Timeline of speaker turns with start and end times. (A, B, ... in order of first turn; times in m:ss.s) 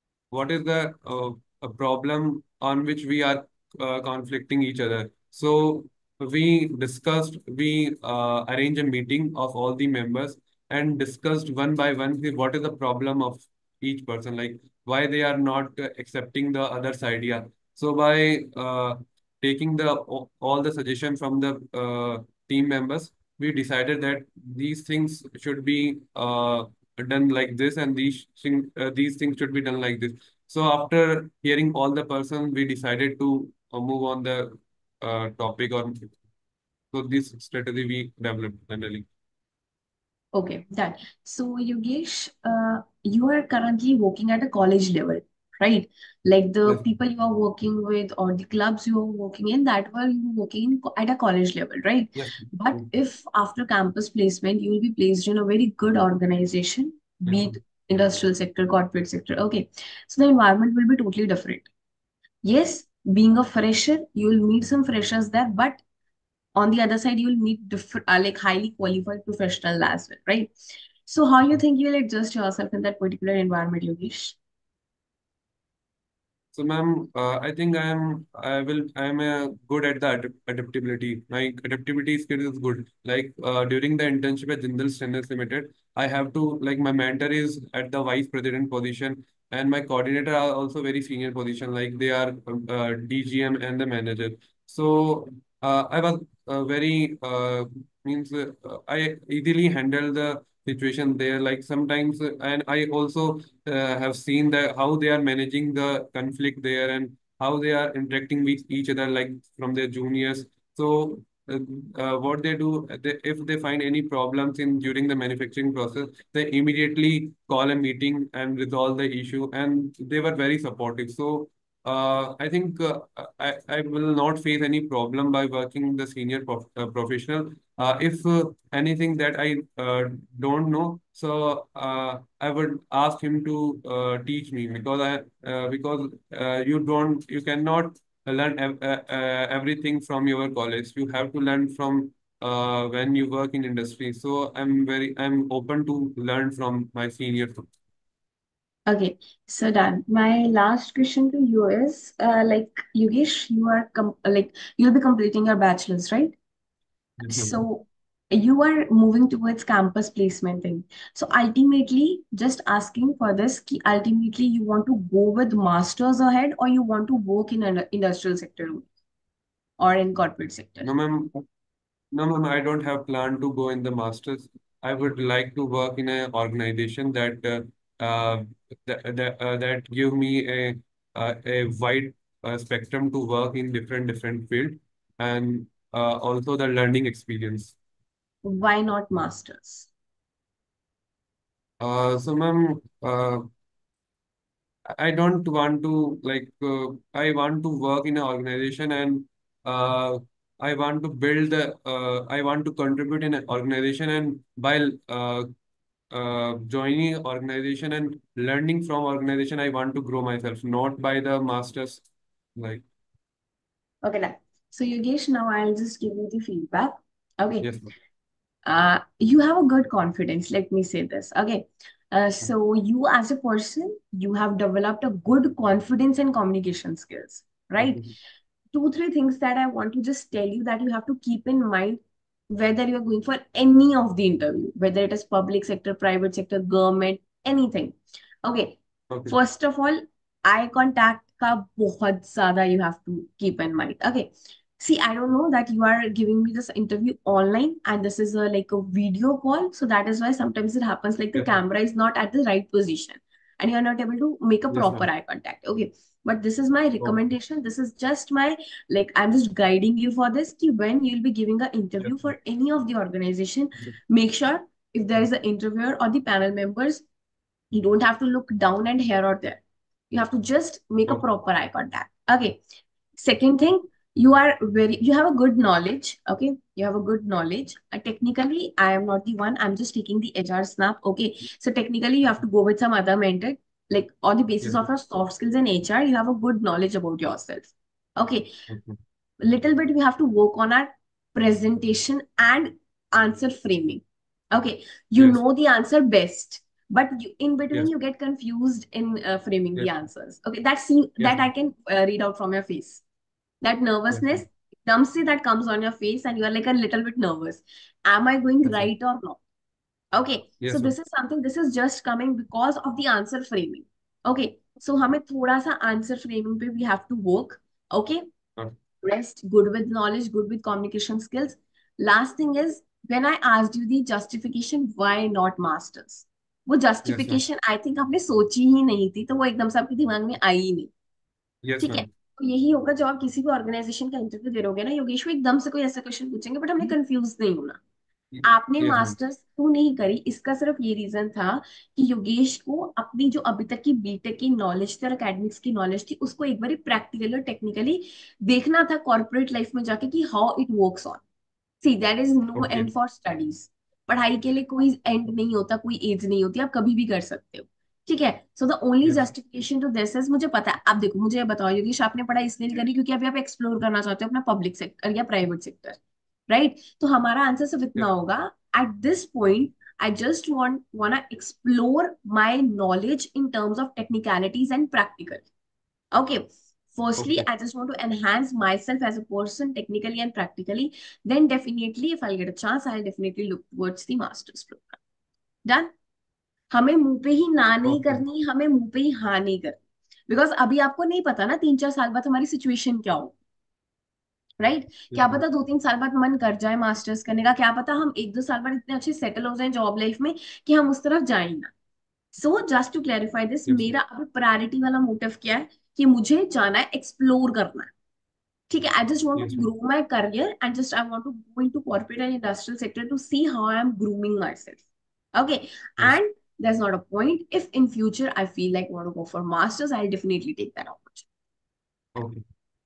0:00.3-0:36.1 A
0:36.9-0:39.1 A
0:40.3-1:01.7 B
0:52.2-0:52.9 A
0:57.3-0:57.6 A
1:02.4-1:05.8 B
1:06.6-1:10.5 B
1:11.0-1:14.4 B
1:16.5-2:27.6 A
2:28.9-2:36.4 B
2:37.2-2:37.6 A
2:37.3-2:48.9 B
2:49.8-2:50.9 B
2:50.8-2:51.4 A
2:52.1-3:07.8 A
3:08.4-3:09.9 B
3:11.8-3:13.5 A
3:15.0-3:25.5 A
3:26.1-3:32.0 A
3:32.6-3:32.8 A
3:34.0-3:37.7 B
3:37.6-3:37.9 A
3:38.7-3:48.0 B
3:47.8-3:48.1 A
3:48.7-4:27.0 B
3:59.1-3:59.4 A
4:14.7-4:15.1 A
4:22.0-4:22.3 A
4:27.7-4:32.6 B
4:33.2-4:48.5 B
4:48.7-4:49.0 A
4:49.4-5:03.0 B
4:55.2-4:55.4 A
5:01.2-5:01.5 A
5:03.6-5:09.4 B
5:04.1-5:04.4 A
5:08.6-5:08.9 A
5:10.1-5:18.2 B
5:10.6-5:11.0 A
5:19.0-5:30.9 B
5:27.0-5:27.4 A
5:31.6-5:32.1 A
5:31.8-5:37.8 B
5:38.3-5:39.2 A
5:38.4-5:51.2 B
5:51.8-6:06.0 B
5:52.6-5:52.9 A
6:06.5-6:15.5 B
6:16.1-6:25.0 B
6:17.2-6:17.5 A
6:25.7-6:25.9 B
6:26.7-6:33.4 B
6:27.8-6:28.2 A
6:34.6-6:41.7 B
6:35.1-6:35.4 A
6:42.3-6:47.9 B
6:43.7-6:43.9 A
6:48.7-7:01.3 B
6:49.4-6:49.7 A
7:02.2-7:02.4 A